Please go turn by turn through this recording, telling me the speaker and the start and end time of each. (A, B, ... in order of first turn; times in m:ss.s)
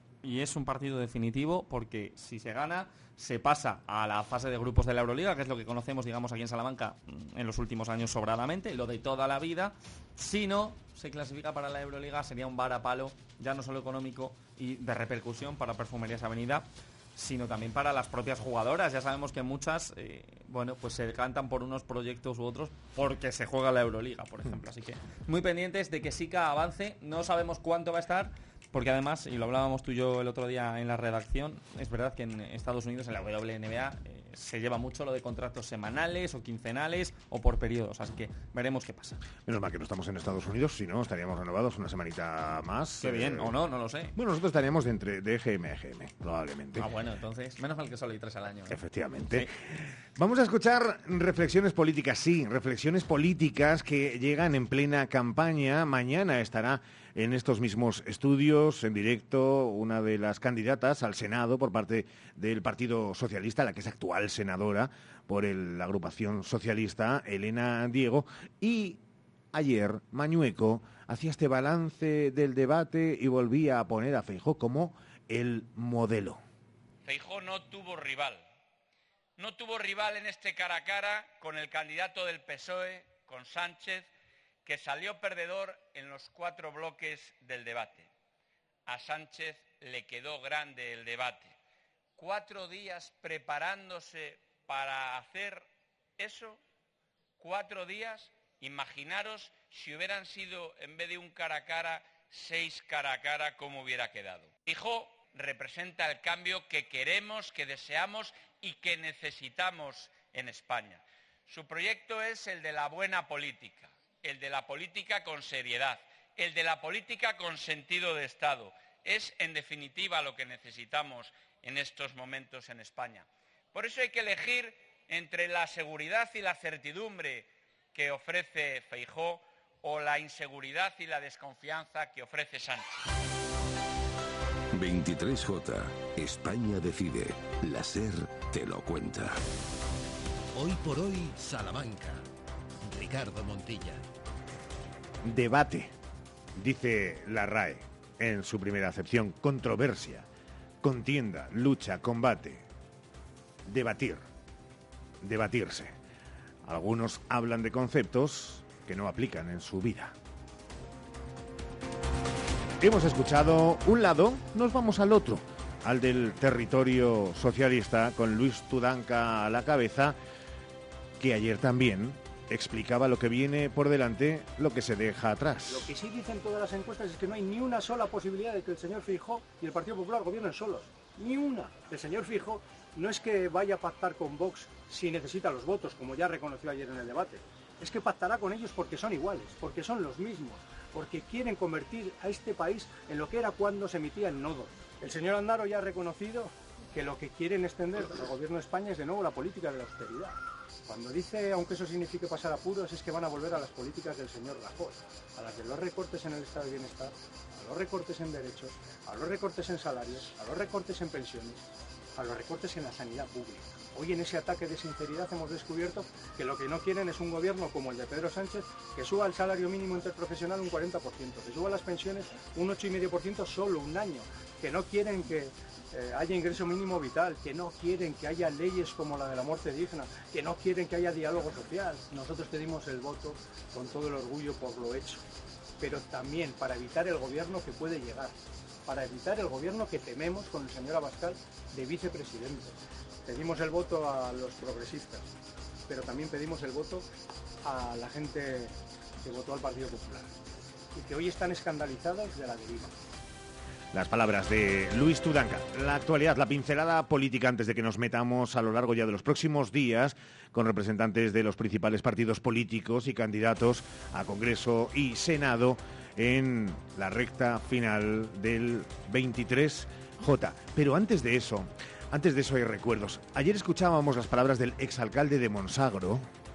0:00.2-0:39.2 A
0:39.4-0:43.5 B
0:43.0-0:44.1 A
0:44.1-0:46.9 B
0:46.8-0:48.8 A
0:48.7-1:09.0 B
1:09.5-1:16.4 B
1:17.0-1:18.4 C
1:19.4-1:24.1 C
1:24.6-1:28.1 C
1:28.8-1:31.5 C
1:32.2-1:36.6 C
1:37.4-2:13.0 C
2:14.7-2:19.4 D
2:20.5-2:22.2 E
2:22.8-2:24.0 E
2:25.2-2:25.9 B
2:26.6-2:30.3 B
2:30.8-2:32.6 B
2:33.6-2:34.2 B
2:35.2-2:36.0 B
2:36.6-2:40.1 B
2:42.8-2:50.2 B
2:51.2-2:55.9 B
2:55.7-3:55.2 F
3:55.8-4:05.3 F
4:05.9-4:07.0 F
4:07.6-4:10.3 F
4:10.9-4:12.9 F
4:13.9-4:36.3 B